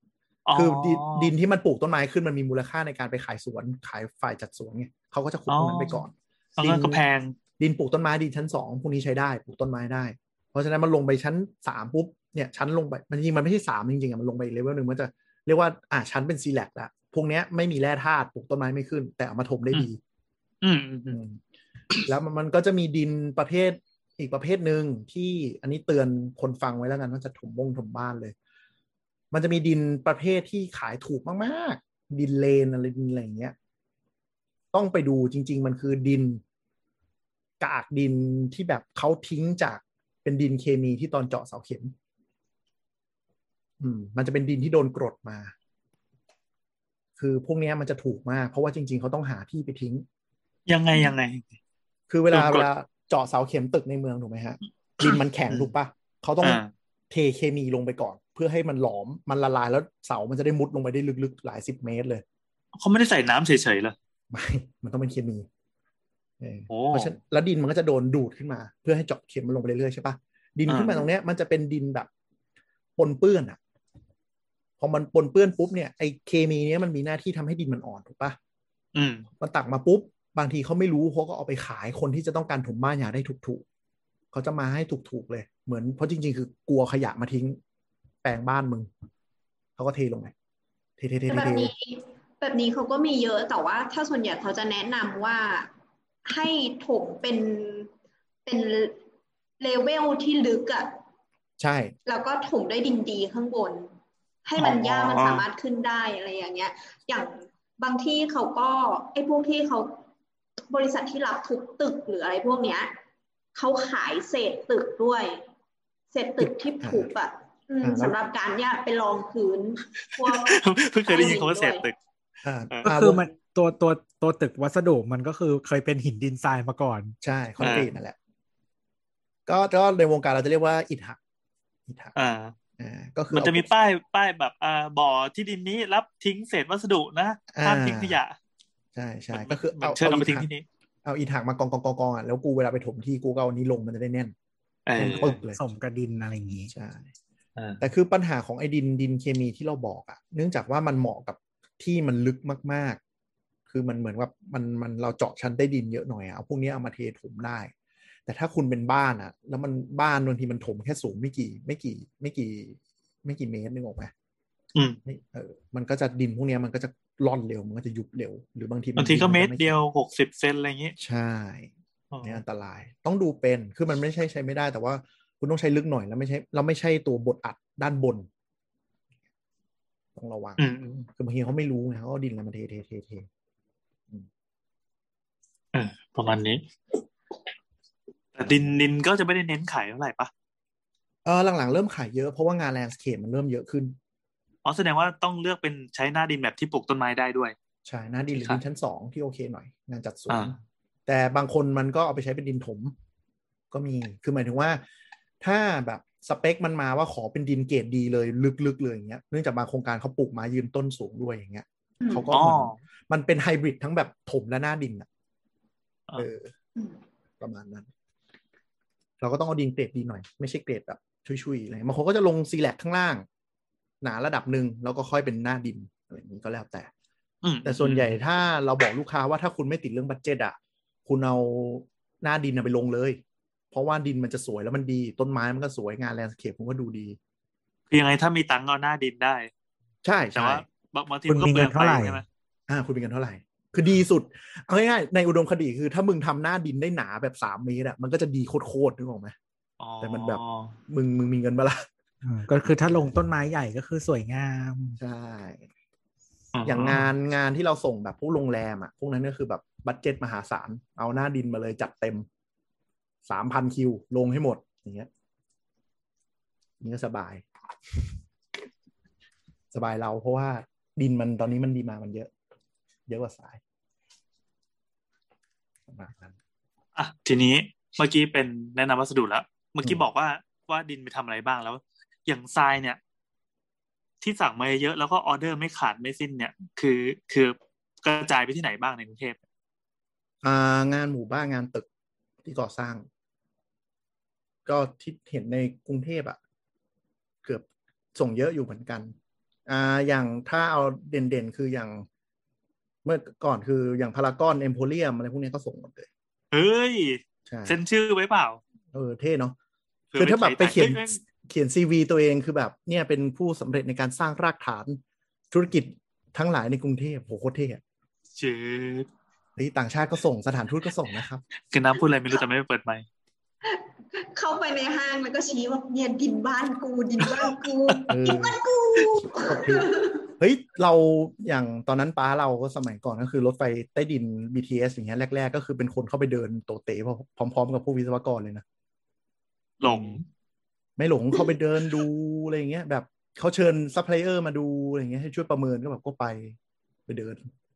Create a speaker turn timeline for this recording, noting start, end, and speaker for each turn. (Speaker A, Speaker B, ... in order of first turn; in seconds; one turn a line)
Speaker A: 0.5-1.3
Speaker B: 0.5-7.0
Speaker A: 5.5-6.0
Speaker A: 6.6-7.3
Speaker B: 7.6-20.0
Speaker A: 20.6-21.2
Speaker B: 21.1-21.4
Speaker B: 22.0-28.3
Speaker B: 29.3-33.5
Speaker B: 34.7-36.4
Speaker B: 37.6-41.9
Speaker B: 43.8-45.5
Speaker B: 47.2-50.0
Speaker A: 50.7-51.5
Speaker B: 52.1-62.2
Speaker A: 52.3-52.7
Speaker A: 55.0-55.6
Speaker A: 56.4-56.7
Speaker A: 62.8-63.9
Speaker B: 64.3-65.5
Speaker B: 66.4-72.1
Speaker A: 66.7-67.1
Speaker A: 70.7-71.0
Speaker B: 73.0-73.6
Speaker B: 74.8-78.4
Speaker A: 78.9-79.2
Speaker B: 79.4-83.6
Speaker B: 84.3-87.6
Speaker B: 88.2-88.9
Speaker B: 89.8-90.3
Speaker B: 91.0-91.7
Speaker C: 91.3-95.7
Speaker C: 96.2-97.9
Speaker C: 98.5-99.0
Speaker C: 99.6-100.9
Speaker B: 101.6-101.9
Speaker C: 102.0-103.9
Speaker C: 104.5-110.0
Speaker B: 104.6-105.4
Speaker C: 110.7-112.9
Speaker C: 113.5-115.4
Speaker C: 116.1-121.8
Speaker B: 116.4-117.1
Speaker B: 117.8-118.1
Speaker A: 120.2-122.0
Speaker B: 122.4-123.2
Speaker D: 122.8-127.1
Speaker B: 127.2-128.2
Speaker A: 127.6-127.9
Speaker B: 129.5-131.2
Speaker B: 131.9-132.1
Speaker A: 132.1-132.5
Speaker B: 132.8-133.7
Speaker A: 133.3-138.3
Speaker B: 137.5-138.2
Speaker B: 138.9-140.5
Speaker A: 139.3-140.6
Speaker B: 141.0-144.3
Speaker A: 144.9-145.4
Speaker B: 144.9-145.6
Speaker D: 145.2-146.7
Speaker B: 146.7-147.1
Speaker B: 147.8-153.0
Speaker B: 153.7-157.7
Speaker B: 158.3-164.1
Speaker B: 165.1-169.8
Speaker A: 169.0-170.9
Speaker B: 171.0-171.7
Speaker A: 172.1-172.4
Speaker B: 172.2-178.3
Speaker B: 180.1-183.3
Speaker A: 180.6-181.0
Speaker A: 185.7-186.6
Speaker A: 188.3-190.3
Speaker B: 188.4-188.7
Speaker B: 191.2-193.9
Speaker A: 194.6-197.5
Speaker B: 197.8-202.9
Speaker A: 200.3-200.5
Speaker B: 203.7-204.8
Speaker B: 205.4-215.1
Speaker C: 212.0-212.2
Speaker A: 212.3-212.8
Speaker B: 216.1-216.5
Speaker B: 217.4-217.9
Speaker B: 219.2-223.2
Speaker B: 224.0-226.9
Speaker A: 227.4-228.2
Speaker B: 227.6-233.2
Speaker B: 233.7-237.2
Speaker A: 237.9-239.5
Speaker B: 240.0-240.6
Speaker A: 240.3-242.2
Speaker D: 241.3-242.2
Speaker B: 242.7-249.3
Speaker A: 249.8-250.8
Speaker B: 250.0-251.8
Speaker D: 252.2-254.9
Speaker B: 252.5-253.1
Speaker B: 254.9-255.7
Speaker A: 256.5-257.1
Speaker B: 256.6-262.3
Speaker B: 263.2-265.1
Speaker B: 266.8-268.1
Speaker B: 269.7-272.3
Speaker B: 273.1-273.6
Speaker B: 275.9-276.4
Speaker A: 276.9-283.0
Speaker A: 284.2-289.4
Speaker B: 290.4-291.9
Speaker B: 292.4-293.1
Speaker B: 294.6-296.4
Speaker B: 297.4-299.1
Speaker B: 299.7-302.1
Speaker B: 303.0-306.1
Speaker A: 306.5-308.6
Speaker B: 307.5-307.8
Speaker B: 308.9-309.5
Speaker A: 310.1-311.2
Speaker B: 310.1-315.0
Speaker B: 315.5-317.8
Speaker A: 318.4-319.1
Speaker B: 319.6-321.4
Speaker A: 321.7-323.0
Speaker C: 323.6-330.2
Speaker A: 327.4-328.1
Speaker B: 328.1-328.6
Speaker B: 329.1-338.6
Speaker A: 339.8-340.2
Speaker B: 339.8-340.2
Speaker B: 341.0-347.5